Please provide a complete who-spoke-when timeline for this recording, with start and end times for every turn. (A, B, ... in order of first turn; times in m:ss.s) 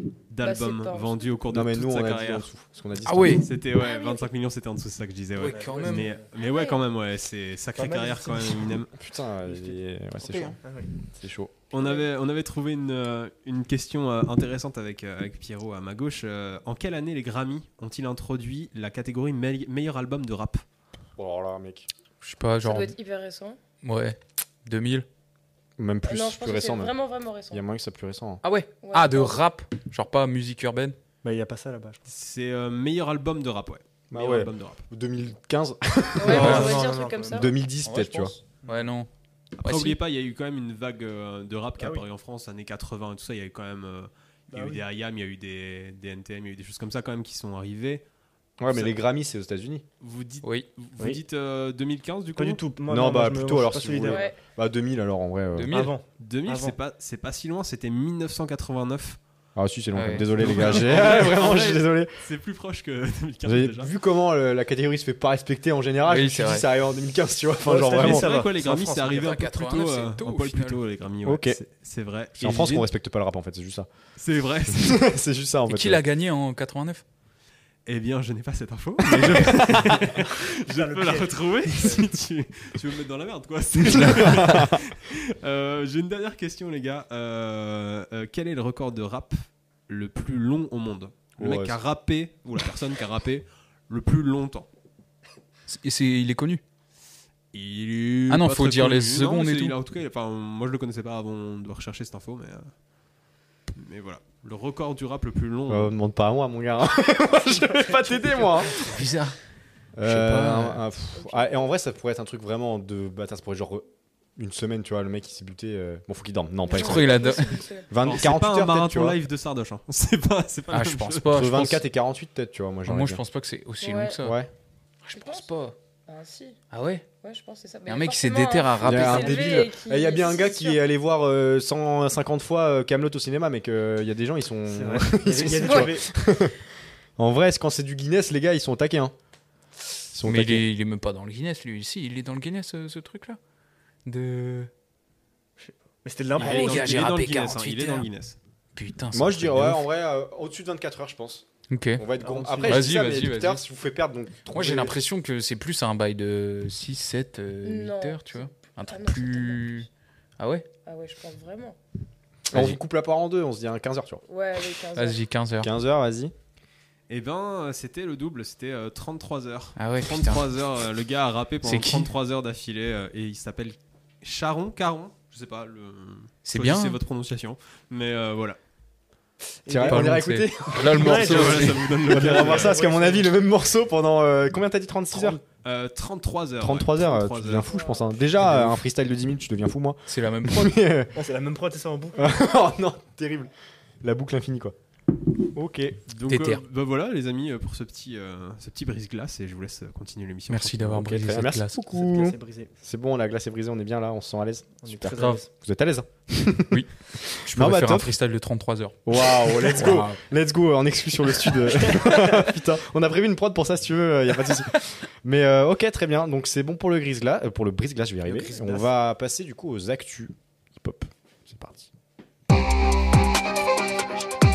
0:00.3-0:02.5 A
0:00.4-0:01.3 B
0:01.5-0:03.4 C
0:03.0-0:03.5 D
0:03.4-0:08.9 A
0:03.7-0:04.3 B
0:05.4-0:06.2 D
0:05.4-0:06.2 E
0:06.4-0:06.8 B
0:07.8-0:08.8 E
0:09.0-0:11.5 C
0:09.4-0:11.0 E
0:11.7-0:20.6 A
0:11.7-0:12.1 B
0:21.2-0:21.9 C
0:22.2-0:22.9 D
0:22.6-0:23.6 B
0:23.8-0:25.0 D
0:25.8-0:26.9 C
0:26.0-0:27.6 B
0:27.5-0:28.4 C
0:28.4-0:31.0 D
0:28.8-0:29.4 B
0:31.2-0:32.0 E
0:32.1-0:34.8 A
0:34.1-0:38.4 C
0:36.2-0:37.5 B
0:36.2-0:37.5 E
0:36.3-0:36.8 D
0:37.8-0:39.1 D
0:39.6-0:48.0 A
0:39.6-0:40.0 D
0:41.8-0:42.1 E
0:44.5-0:44.8 E
0:48.6-0:49.8 C
0:48.7-0:49.0 A
0:50.0-0:52.6 A
0:50.4-0:50.7 D
0:52.3-0:54.3 E
0:52.9-0:55.8 C
0:54.0-0:54.4 B
0:55.6-0:56.0 D
0:55.7-0:56.8 E
0:56.2-0:59.2 A
0:59.6-1:02.1 C
0:59.9-1:00.8 D
1:00.3-1:03.9 A
1:03.4-1:08.4 C
1:06.0-1:06.6 D
1:07.6-1:09.4 E
1:07.9-1:12.7 A
1:09.1-1:10.8 D
1:11.2-1:11.6 C
1:12.4-1:13.9 C
1:12.4-1:12.8 D
1:14.2-1:15.1 A
1:14.7-1:16.0 C
1:15.7-1:17.0 D
1:17.8-1:34.7 A
1:20.2-1:22.0 E
1:24.0-1:24.8 C
1:31.4-1:31.8 C
1:35.7-1:36.6 D
1:37.5-1:42.7 A
1:38.3-1:39.8 D
1:43.7-1:45.9 A
1:45.7-1:48.8 C
1:47.5-1:49.0 E
1:48.9-1:49.4 D
1:50.0-1:57.2 C
1:50.0-1:50.8 D
1:51.2-1:51.5 B
1:56.6-1:57.9 B
1:56.7-1:57.6 D
1:57.9-1:59.2 C
1:58.0-2:01.4 A
2:00.7-2:01.8 D
2:01.3-2:03.2 C
2:02.9-2:04.4 D
2:03.8-2:04.2 B
2:04.2-2:04.5 C
2:05.0-2:05.7 D
2:05.1-2:05.5 B
2:06.1-2:06.6 B
2:06.7-2:07.0 D
2:07.2-2:10.8 B
2:07.8-2:09.6 D
2:08.8-2:16.6 C
2:14.7-2:16.1 E
2:15.6-2:15.9 B
2:17.2-2:19.1 C
2:20.1-2:20.6 C
2:20.2-2:23.4 D
2:24.0-2:24.7 D
2:25.6-2:27.1 E
2:26.4-2:28.1 D
2:26.4-2:28.4 A
2:28.7-2:29.8 D
2:29.1-2:35.0 C
2:31.7-2:32.0 D
2:32.2-2:32.9 E
2:32.6-2:33.6 D
2:34.5-2:39.9 D
2:37.6-2:39.8 B
2:40.4-2:40.7 D
2:40.8-2:41.8 B
2:42.5-2:42.8 D
2:42.5-2:44.2 C
2:44.3-2:45.2 B
2:44.9-2:45.7 D
2:45.6-2:46.3 C
2:47.1-2:58.6 A
2:49.8-2:50.5 D
2:51.6-2:52.1 D
2:56.4-2:57.0 D
2:59.6-3:03.3 E
2:59.7-3:05.4 C
2:59.8-3:01.8 D
3:01.0-3:02.8 A
3:05.6-3:07.7 A
3:06.6-3:11.1 C
3:07.7-3:08.1 B
3:08.4-3:08.8 D
3:10.1-3:10.8 D
3:11.1-3:12.3 E
3:12.1-3:14.8 C
3:15.5-3:16.0 C
3:16.1-3:21.0 A
3:16.3-3:16.6 D
3:20.5-3:21.8 D
3:20.9-3:28.1 C
3:21.9-3:22.7 E
3:24.8-3:25.5 E
3:27.4-3:30.2 D
3:29.0-3:41.9 C
3:38.2-3:38.9 E